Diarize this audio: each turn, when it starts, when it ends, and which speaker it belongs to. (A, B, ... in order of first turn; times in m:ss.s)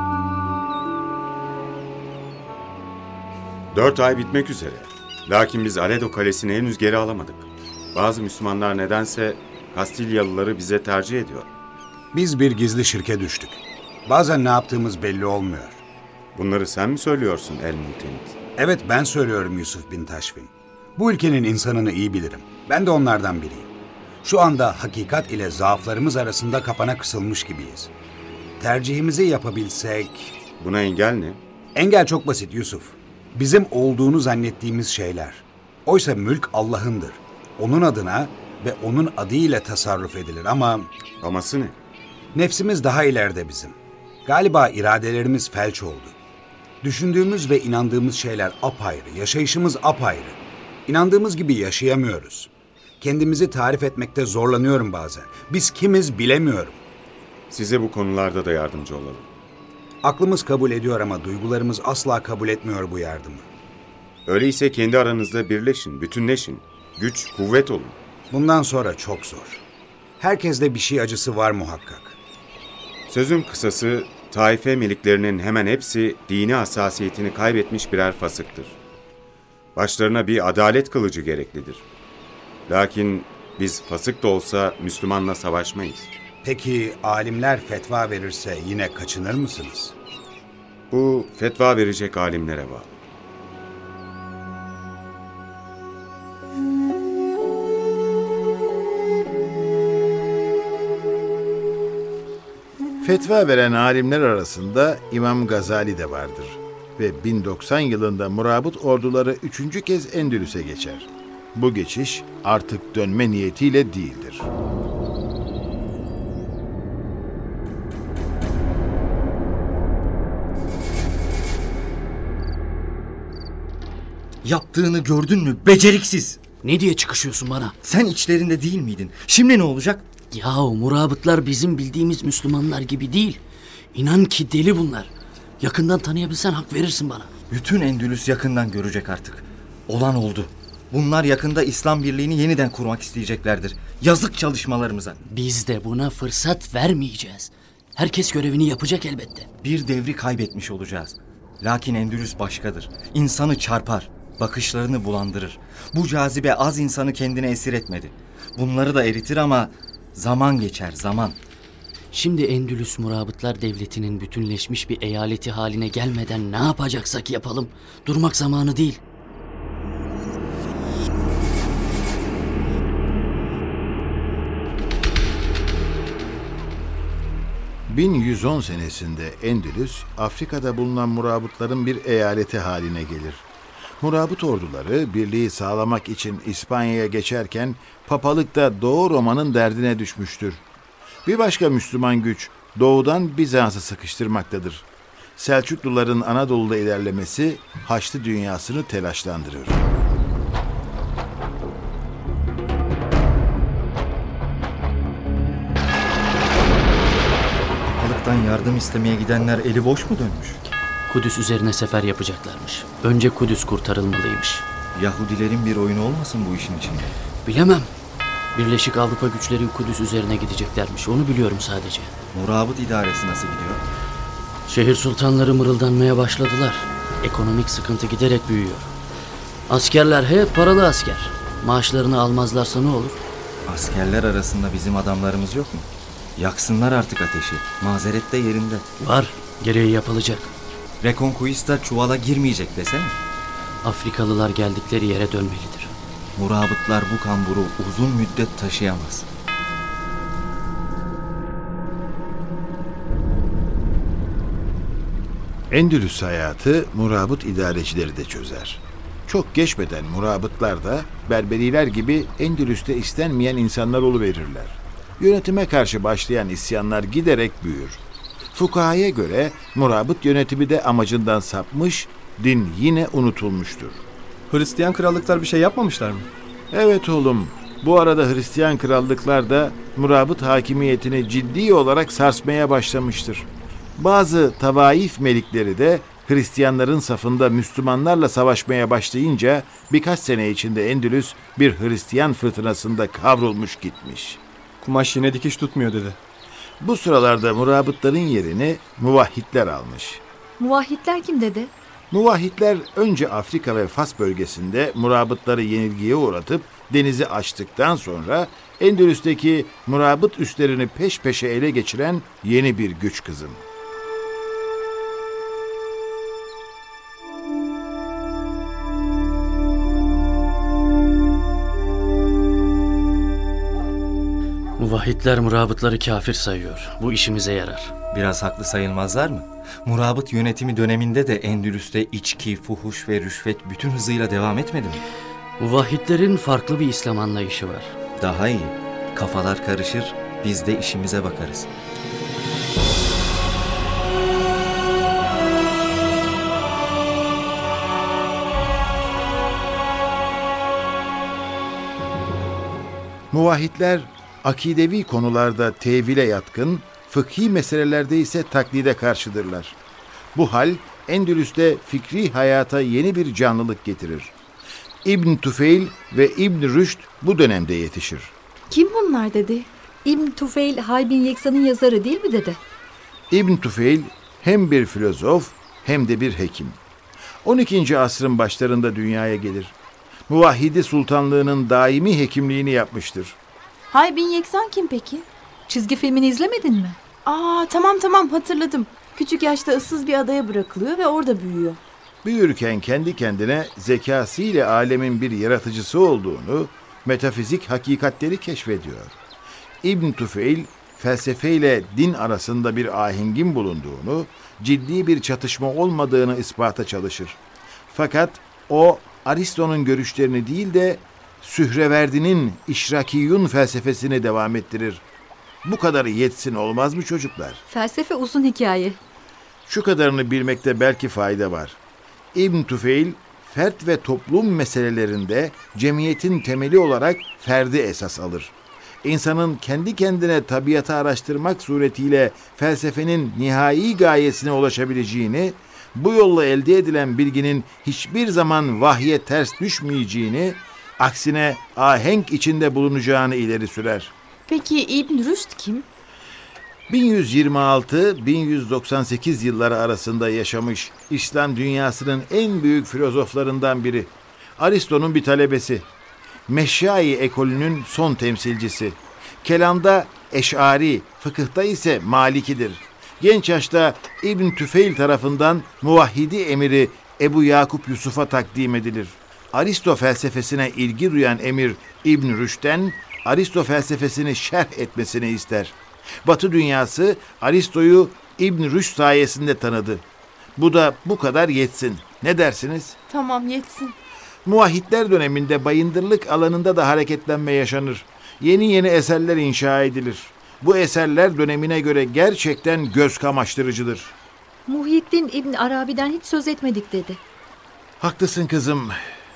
0:03.7-0:11.5 A
0:12.1-0:15.8 B
0:16.3-0:18.3 A
0:18.6-0:23.7 B
0:24.2-0:27.9 B
0:28.6-0:30.4 B
0:30.6-0:31.4 A
0:31.7-0:40.9 B
0:41.2-0:41.7 A
0:42.3-0:46.1 B
0:46.8-0:56.8 B
0:57.5-0:59.2 A
1:00.0-1:03.4 B
1:04.3-1:08.0 A
1:08.3-1:09.6 B
1:10.2-1:12.2 B
1:13.1-1:18.7 A
1:19.8-1:21.8 A
1:22.7-1:26.1 A
1:26.4-1:29.9 B
1:30.9-1:32.9 A
1:43.0-1:54.5 C
2:04.4-2:06.4 D
2:06.6-2:07.7 E
2:07.8-2:10.0 D
2:10.3-2:13.4 E
2:13.9-2:17.3 E
2:17.5-2:25.2 D
2:25.3-2:29.5 E
2:29.6-2:41.4 D
2:42.1-2:49.0 E
2:57.9-3:03.4 C
3:04.0-3:10.6 C
3:11.2-3:19.8 C
3:27.9-3:30.6 D
3:31.1-3:34.6 E
3:34.9-3:37.1 D
3:37.4-3:37.9 E
3:38.5-3:42.1 E
3:42.3-3:43.8 D
3:44.7-3:48.9 E
3:49.7-3:53.2 E
3:53.6-3:55.8 D
3:56.4-3:58.8 D
3:59.0-4:00.5 E
4:01.0-4:03.2 D
4:03.8-4:05.9 E
4:06.4-4:09.2 D
4:15.7-4:28.0 C
4:28.5-4:34.0 C
4:34.5-4:36.3 F
4:36.7-4:54.4 C
4:54.8-4:56.2 F
4:56.8-5:00.2 C
5:00.6-5:01.7 G
5:02.1-5:13.6 C
5:24.8-5:27.9 E
5:28.1-5:35.0 D
5:35.6-5:37.9 E
5:38.2-5:41.7 D
5:53.3-5:59.8 C
6:00.3-6:04.3 C
6:05.0-6:08.3 C
6:08.7-6:09.7 H
6:10.0-6:12.6 G
6:13.3-6:16.8 C
6:17.4-6:19.7 C
6:20.3-6:23.4 C
6:23.9-6:25.3 H
6:25.7-6:27.0 G
6:27.2-6:31.8 H
6:32.2-6:39.2 C
6:39.8-6:47.4 C
6:47.9-6:55.0 C
6:55.6-6:57.6 C
6:57.7-6:59.0 G
6:59.7-7:01.8 C
7:02.3-7:24.1 C
7:24.5-7:25.8 H
7:26.9-7:35.8 C
7:36.5-8:00.0 C
8:00.6-8:03.0 C
8:03.1-8:03.9 H
8:04.4-8:14.1 C
8:14.7-8:17.2 G
8:18.0-8:19.0 C